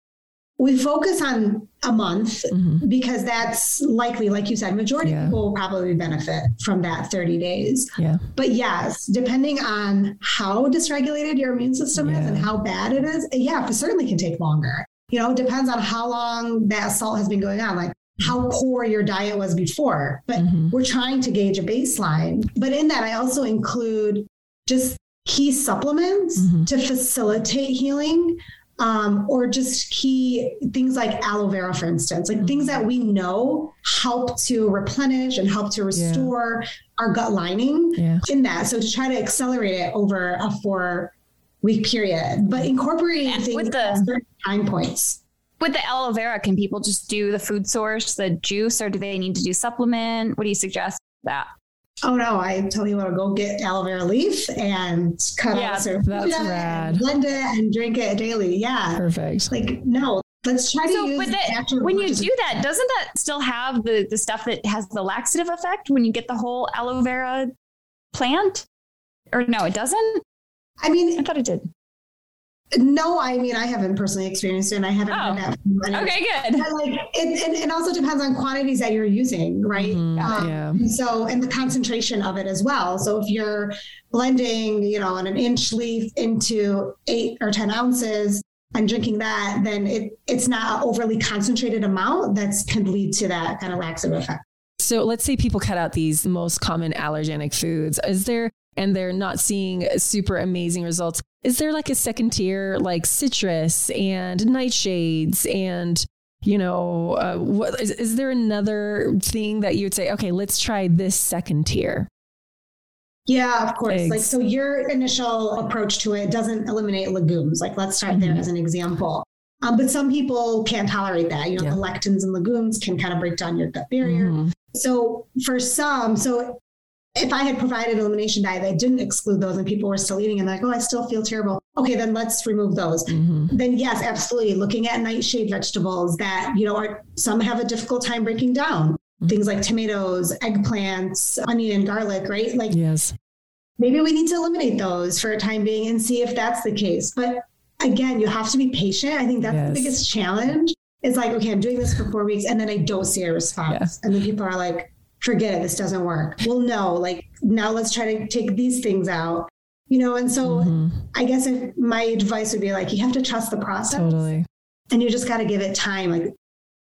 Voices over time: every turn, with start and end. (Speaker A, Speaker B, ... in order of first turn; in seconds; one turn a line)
Speaker A: 0.6-45.2
Speaker B: 2.5-2.8
Speaker B: 5.0-5.3
Speaker B: 8.0-8.2
Speaker B: 12.0-12.5
Speaker B: 20.4-20.7
Speaker B: 26.4-26.7
Speaker B: 32.4-32.7
Speaker B: 35.9-36.3
Speaker B: 38.0-38.2
Speaker C: 43.2-44.1
Speaker C: 45.6-51.5
Speaker A: 52.0-62.3
Speaker C: 55.5-55.9
Speaker B: 56.0-57.0
Speaker B: 59.0-59.5
Speaker C: 60.9-67.5
Speaker C: 68.1-68.7
Speaker C: 69.3-70.2
Speaker A: 70.8-71.2
Speaker C: 71.2-71.7
Speaker A: 72.7-94.4
Speaker C: 75.1-76.7
Speaker B: 79.7-80.8
Speaker B: 94.8-112.1
Speaker A: 113.3-126.6
Speaker B: 113.9-114.3
Speaker B: 118.1-118.4
Speaker B: 124.0-124.5
Speaker A: 127.2-142.8
Speaker B: 133.1-133.5
Speaker B: 142.7-143.1
Speaker A: 143.8-164.3
Speaker B: 149.4-150.0
Speaker B: 153.7-153.9
Speaker B: 160.4-161.1
Speaker B: 163.9-164.4
Speaker A: 164.9-166.3